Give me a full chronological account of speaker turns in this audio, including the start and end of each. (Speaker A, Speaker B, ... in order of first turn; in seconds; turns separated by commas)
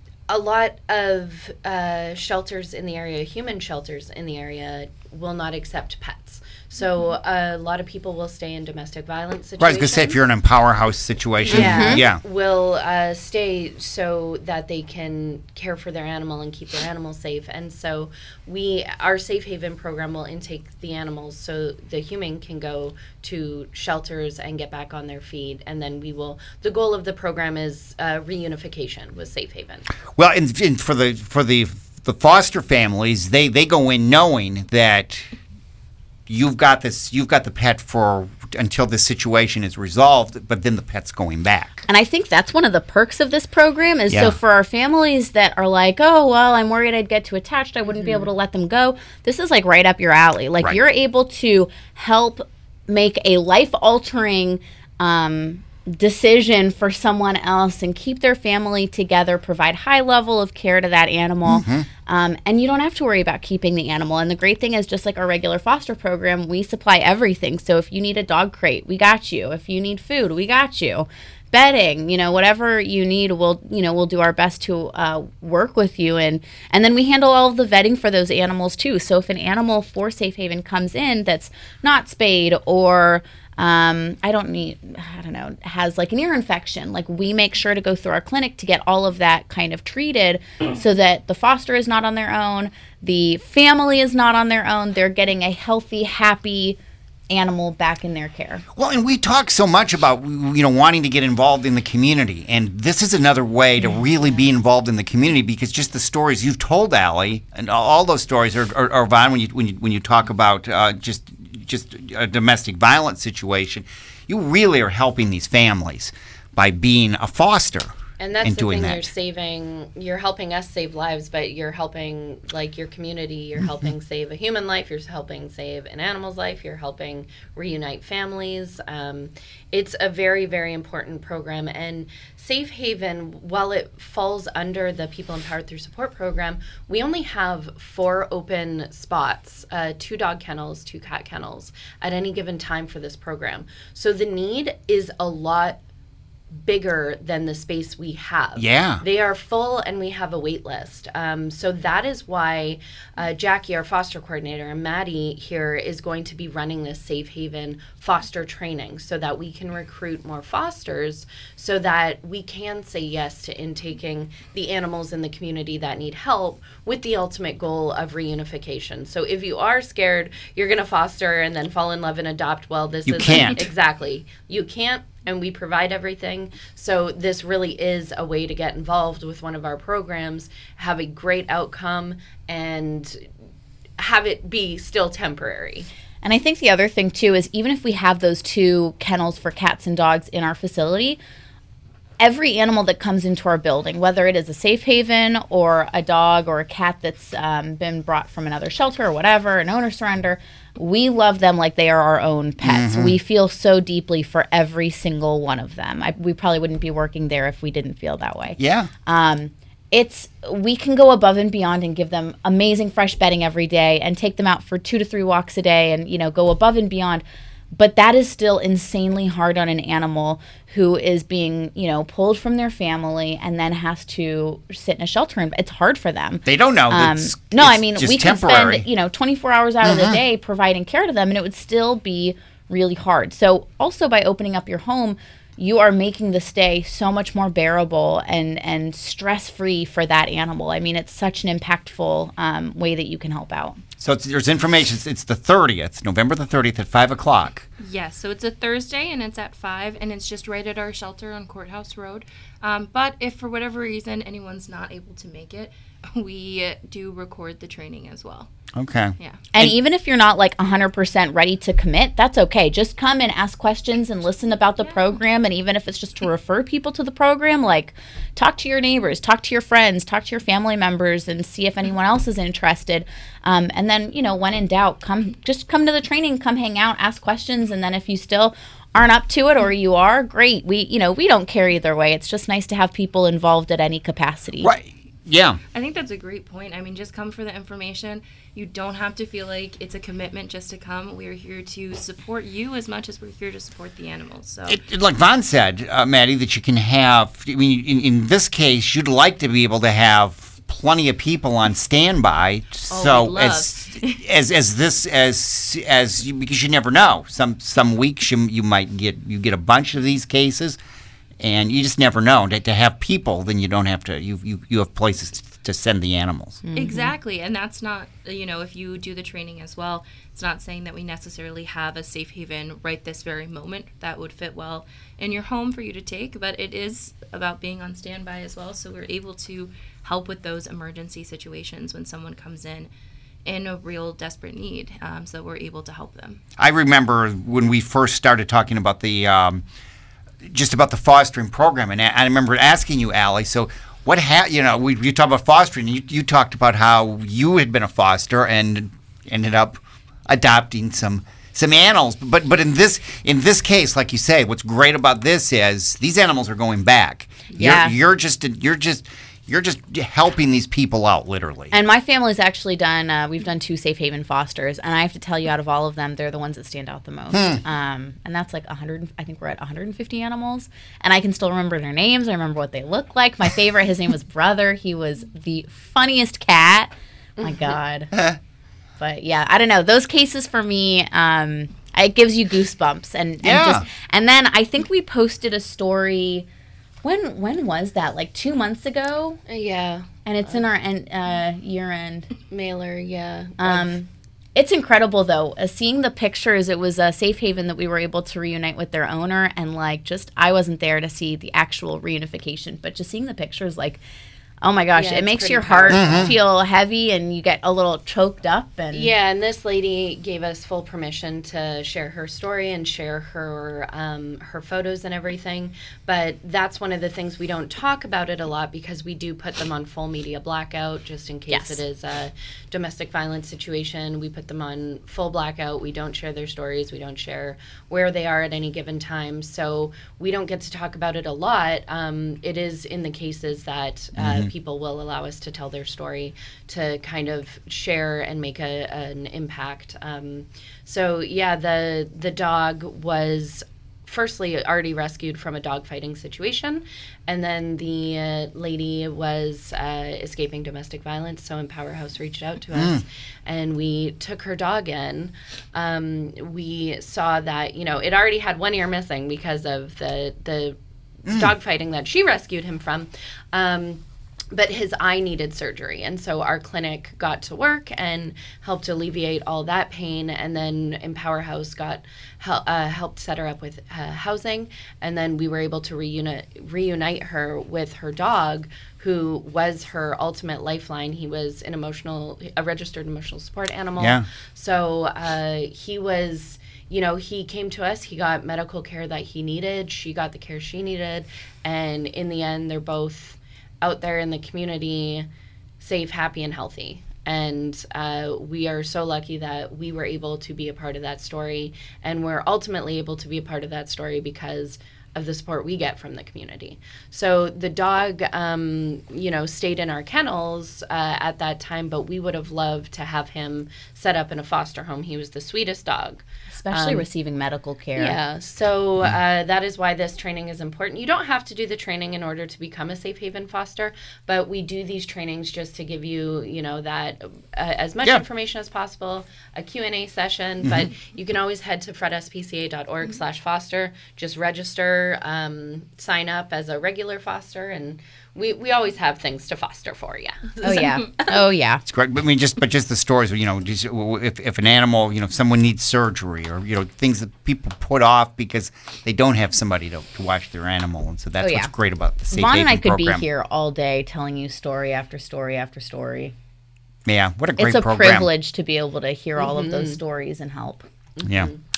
Speaker A: 0.3-10.2, Speaker B: 9.6-12.2, Speaker C: 11.5-12.0, Speaker A: 11.5-29.9, Speaker B: 30.2-35.3, Speaker B: 36.3-41.9, Speaker C: 41.9-96.8, Speaker B: 44.1-44.4, Speaker B: 61.5-61.9, Speaker C: 97.3-98.6, Speaker B: 98.8-119.1, Speaker A: 118.2-145.8, Speaker A: 146.5-183.3, Speaker B: 148.6-149.0, Speaker B: 173.1-173.7, Speaker A: 184.0-185.9, Speaker C: 186.2-191.2, Speaker C: 192.2-243.8, Speaker B: 202.6-203.1, Speaker B: 208.6-208.9, Speaker B: 226.5-228.8, Speaker B: 229.8-230.2, Speaker B: 244.0-247.7, Speaker D: 247.8-258.5, Speaker B: 258.8-259.7, Speaker C: 259.5-284.7, Speaker B: 284.6-285.6, Speaker D: 285.7-294.8, Speaker B: 294.7-310.8, Speaker D: 302.9-304.2, Speaker B: 311.4-316.6, Speaker C: 316.6-317.1, Speaker D: 316.8-332.9, Speaker D: 333.4-336.4, Speaker B: 336.6-339.6, Speaker B: 340.5-361.8, Speaker C: 357.6-358.0, Speaker C: 361.7-378.1, Speaker B: 367.3-367.6, Speaker A: 377.4-377.6, Speaker B: 378.1-378.4, Speaker C: 379.0-386.5, Speaker B: 383.4-383.9, Speaker C: 387.0-389.4, Speaker A: 389.5-390.7, Speaker C: 390.3-392.3, Speaker A: 392.5-393.9, Speaker C: 393.6-404.0, Speaker C: 404.6-409.1, Speaker A: 404.9-406.4, Speaker B: 405.9-406.4, Speaker A: 408.9-495.3, Speaker C: 421.5-421.8, Speaker B: 434.2-434.5, Speaker B: 452.8-453.0, Speaker B: 484.0-484.3, Speaker A: 495.8-517.1, Speaker C: 516.5-518.2, Speaker A: 518.0-541.3, Speaker B: 530.6-530.9, Speaker C: 540.6-541.8, Speaker B: 541.9-553.2, Speaker C: 551.4-551.7, Speaker C: 552.3-556.4, Speaker B: 557.1-558.3, Speaker C: 557.6-560.9, Speaker A: 559.4-560.0, Speaker A: 561.2-561.6, Speaker B: 561.2-561.6